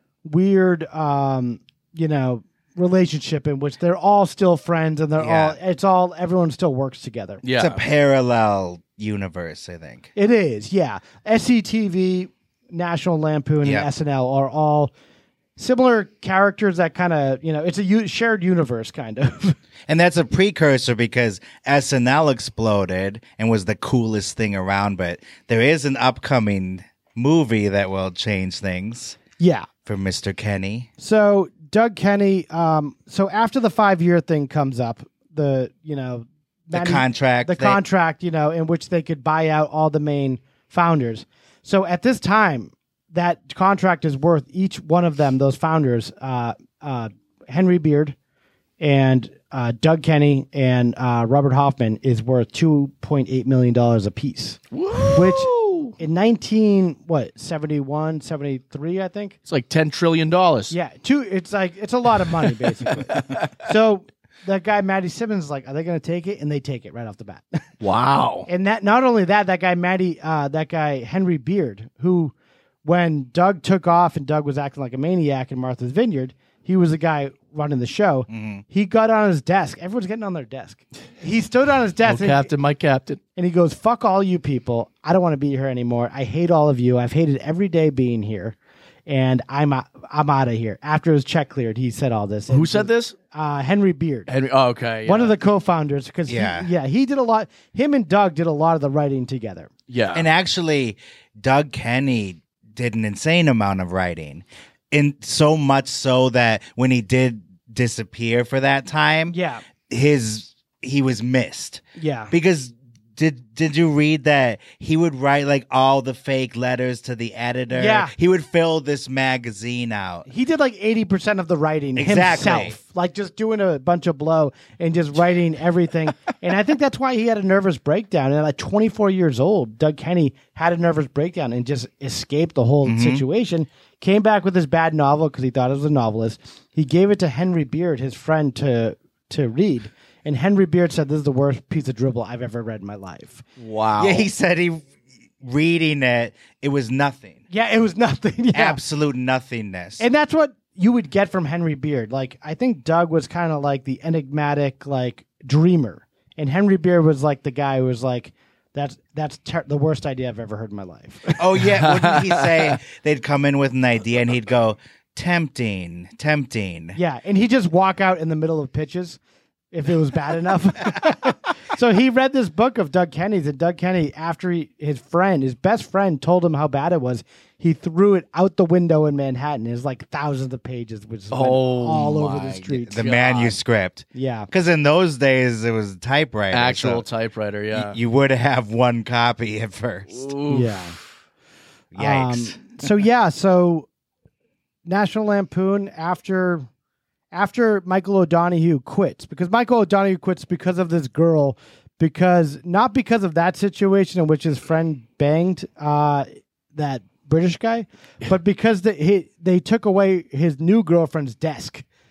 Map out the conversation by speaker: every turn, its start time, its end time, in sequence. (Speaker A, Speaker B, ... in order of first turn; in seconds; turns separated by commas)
Speaker A: 0.2-7.4, Speaker B: 5.2-5.6, Speaker C: 7.4-7.8, Speaker B: 7.5-10.1, Speaker A: 10.2-14.9, Speaker A: 15.6-19.6, Speaker B: 19.9-29.2, Speaker A: 29.4-29.7, Speaker B: 29.9-30.9, Speaker A: 31.0-48.1, Speaker B: 36.7-37.8, Speaker A: 48.8-54.6, Speaker C: 54.7-55.9, Speaker A: 55.1-59.4, Speaker C: 59.5-60.7, Speaker A: 60.7-67.6, Speaker C: 63.1-63.5, Speaker C: 67.8-68.5, Speaker A: 68.5-72.3, Speaker A: 72.8-82.5, Speaker B: 78.3-78.6, Speaker C: 82.0-83.2, Speaker A: 83.4-88.5, Speaker A: 89.1-94.3, Speaker C: 92.5-93.1, Speaker C: 94.3-95.3, Speaker A: 95.0-99.7, Speaker B: 96.3-96.7, Speaker C: 99.9-100.3, Speaker B: 100.1-109.4, Speaker A: 109.3-109.6, Speaker B: 109.9-120.3, Speaker A: 112.0-112.3, Speaker A: 117.7-118.1, Speaker A: 120.3-143.4, Speaker B: 122.0-122.8, Speaker B: 132.8-133.2, Speaker C: 143.6-144.3, Speaker B: 144.0-144.9, Speaker B: 145.4-147.4, Speaker A: 147.5-148.8, Speaker B: 148.5-150.0, Speaker A: 150.0-161.4, Speaker B: 161.4-167.0, Speaker C: 161.8-162.7, Speaker A: 166.9-169.2, Speaker A: 169.7-183.0, Speaker C: 181.3-183.6, Speaker B: 182.9-187.1, Speaker A: 184.1-184.5, Speaker C: 186.5-188.0, Speaker B: 187.7-190.2, Speaker C: 190.1-191.0, Speaker A: 190.5-190.9, Speaker B: 191.9-192.6, Speaker A: 192.0-193.9, Speaker A: 194.9-196.7, Speaker A: 197.3-211.8